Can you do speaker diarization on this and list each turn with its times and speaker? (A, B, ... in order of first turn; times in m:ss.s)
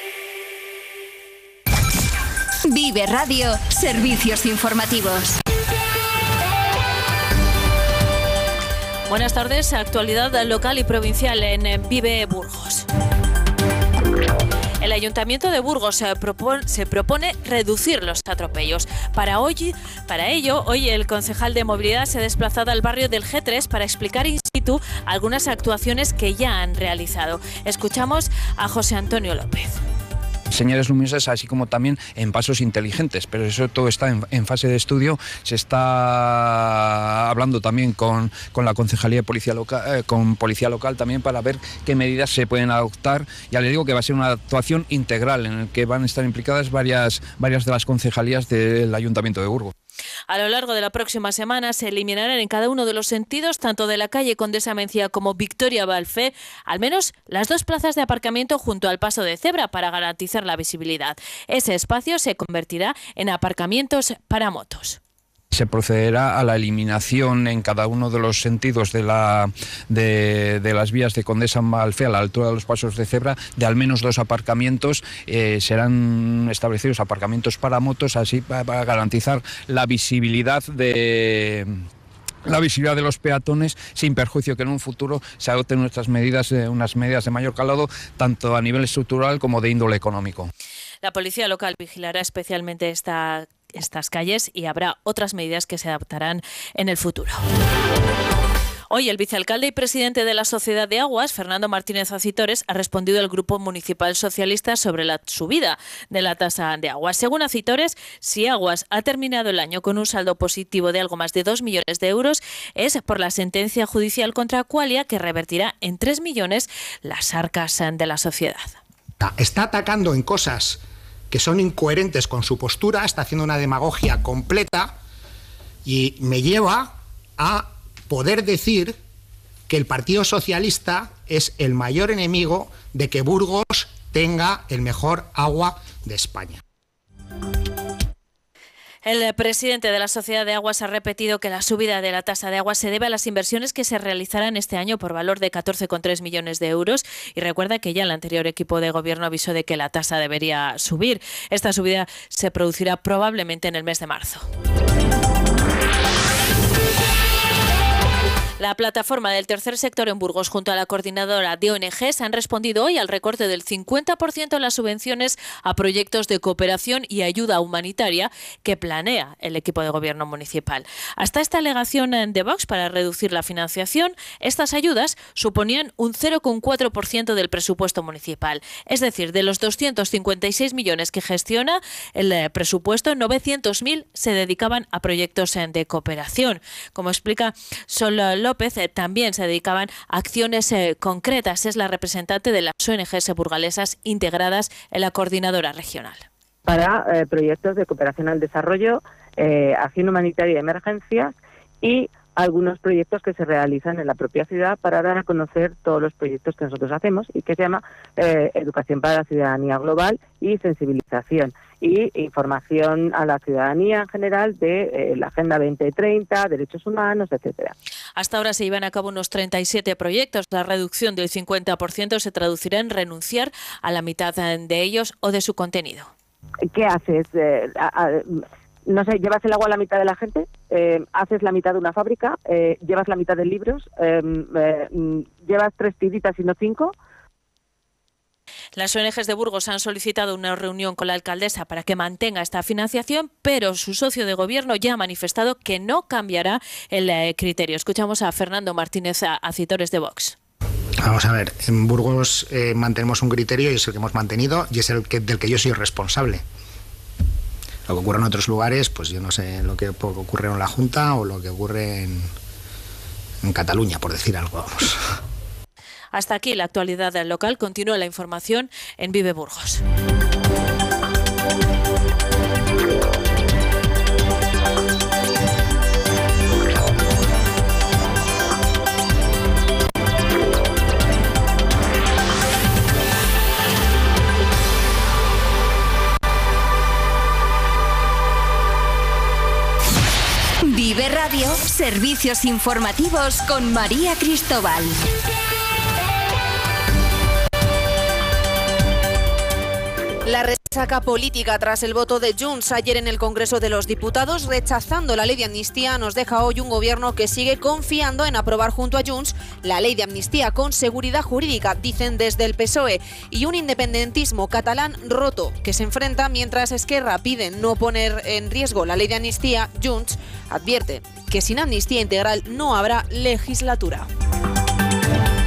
0:02.6-0:05.4 A
0:09.1-0:12.8 B
0:14.8-0:29.8 B
0:30.5-0:49.7 C
0:50.3-1:05.0 B
1:05.5-1:21.6 C
1:22.4-1:30.5 C
1:31.0-1:37.4 B
1:38.9-1:58.8 B
1:59.2-2:05.0 D
2:05.8-2:09.0 D
2:09.7-2:16.6 D
2:19.0-2:34.5 B
2:38.6-3:16.2 B
3:16.6-3:37.7 E
3:38.2-3:46.1 B
3:46.7-3:57.0 E
3:58.8-4:10.3 B
4:11.0-4:16.4 D
4:17.9-4:22.3 D
4:23.4-4:25.0 D
4:26.1-4:29.8 B
4:50.6-4:55.0 A
5:00.2-5:24.0 F